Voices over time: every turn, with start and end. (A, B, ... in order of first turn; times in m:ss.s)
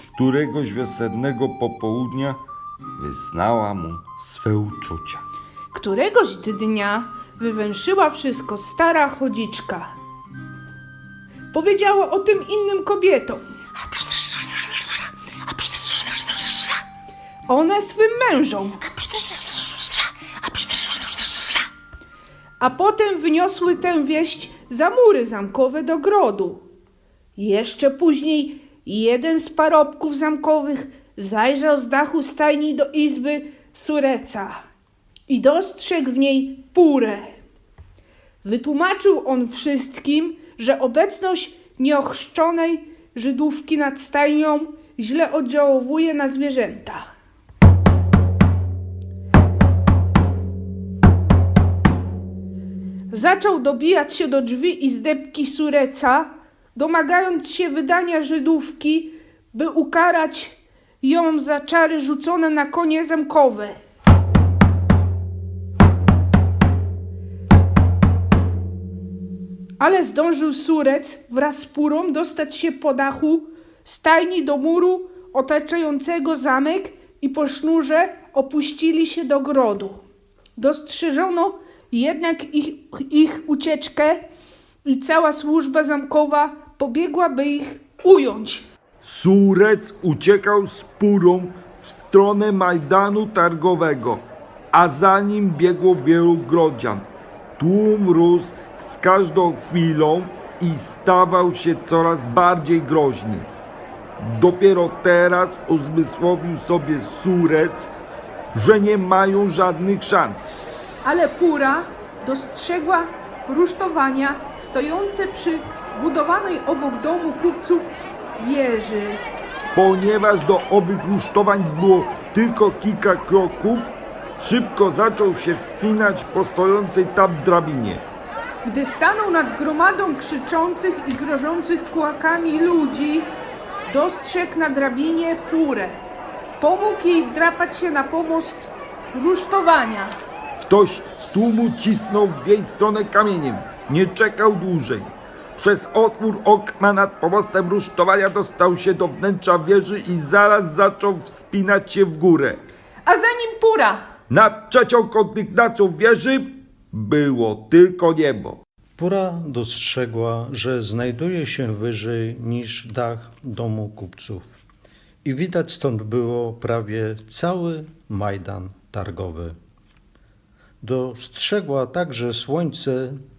0:00.2-0:02.4 A
0:03.0-0:05.2 A
0:05.7-0:09.9 B
0:11.5-0:16.7 B
0:17.5-0:21.6 B
0:22.6-0:26.6 B
0:27.4-0:34.6 B
0:35.3-0:37.4 B
0:38.4-0:47.0 B
0:53.1-1:03.8 B
1:09.8-1:20.0 B
1:20.6-1:24.3 B
1:24.8-1:28.7 B
1:29.0-1:37.0 A
1:37.6-1:43.5 A
1:44.2-1:47.9 A
1:48.5-1:50.5 A
1:51.0-1:59.2 B
1:59.7-2:08.0 A
2:08.6-2:13.3 B
2:13.9-2:16.0 B
2:16.6-2:20.2 B
2:20.6-2:32.6 A
2:33.0-2:34.0 B
2:34.3-2:38.6 A
2:39.0-2:44.5 C
2:45.2-2:49.6 C
2:50.8-2:53.2 C